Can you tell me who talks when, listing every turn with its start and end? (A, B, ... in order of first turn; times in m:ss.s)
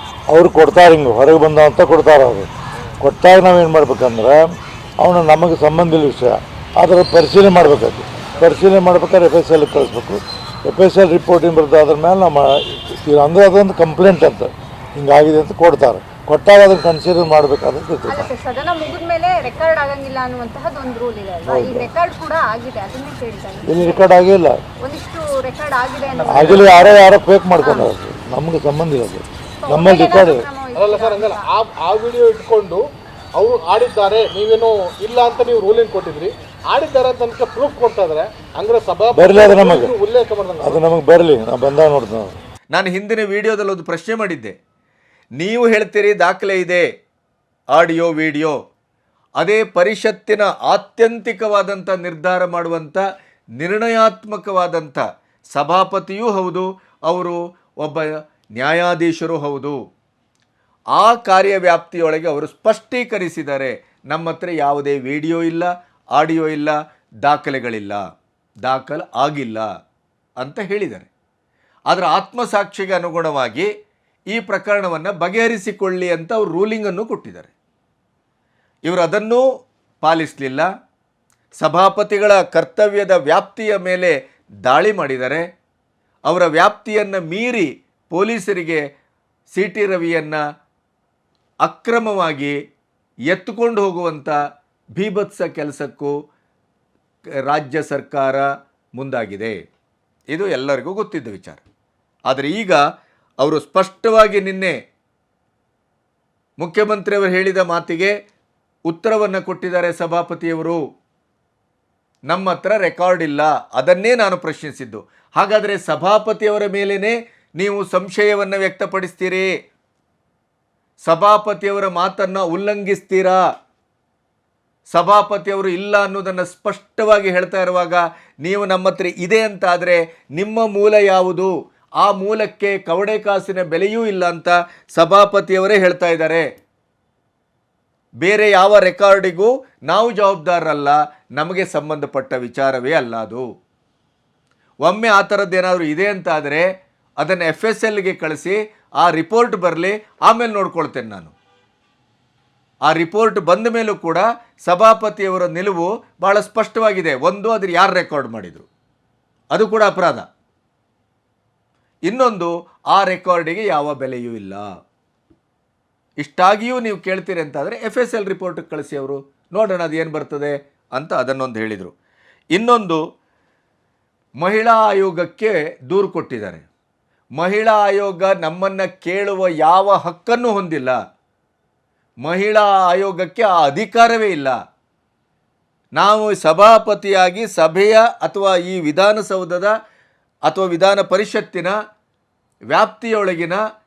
0:00.3-0:02.5 A
0:03.0-0:18.3 A
0:18.1-0:24.0 B
0:21.4-0:21.9 A
0:23.6-0:24.6 A
0:24.8-0:27.1 B
0:26.1-0:26.7 C
0:26.3-0:30.4 A
0:29.6-0:31.5 B
0:30.8-0:32.8 C
0:33.4-0:40.8 C
0:39.1-0:40.0 A
0:40.6-0:42.4 A
0:42.7-0:44.5 D
0:45.4-0:46.8 D
0:47.8-0:48.6 D
0:49.4-0:53.0 D
0:53.6-0:55.0 D
0:55.5-0:59.8 D
1:00.9-1:08.0 D
1:08.6-1:09.7 D
1:10.4-1:11.1 D
1:11.9-1:13.7 D
1:14.3-1:17.5 D
1:18.9-1:19.4 D
1:20.0-1:20.7 D
1:21.6-1:24.1 D
1:24.6-1:25.4 D
1:26.3-1:28.8 D
1:29.5-1:30.4 D
1:31.6-1:32.6 D
1:33.3-1:34.4 D
1:35.0-1:36.1 D
1:37.5-1:38.5 D
1:39.0-1:39.6 D
1:40.3-1:41.6 D
1:42.3-1:42.8 D
1:43.4-1:44.8 D
1:46.6-1:48.1 D
1:48.9-1:50.8 D
1:52.3-1:59.5 D
2:01.1-2:03.4 D
2:04.9-2:16.4 D
2:18.2-2:23.5 D
2:24.8-2:26.7 D
2:27.2-2:31.3 D
2:32.9-2:38.7 D
2:39.5-2:40.3 D
2:42.1-2:44.7 D
2:46.2-2:51.9 D
2:52.5-2:53.0 D
2:54.4-2:56.7 D
2:57.4-3:01.0 D
3:02.2-3:04.6 D
3:06.0-3:09.7 D
3:10.5-3:11.7 D
3:12.7-3:13.6 D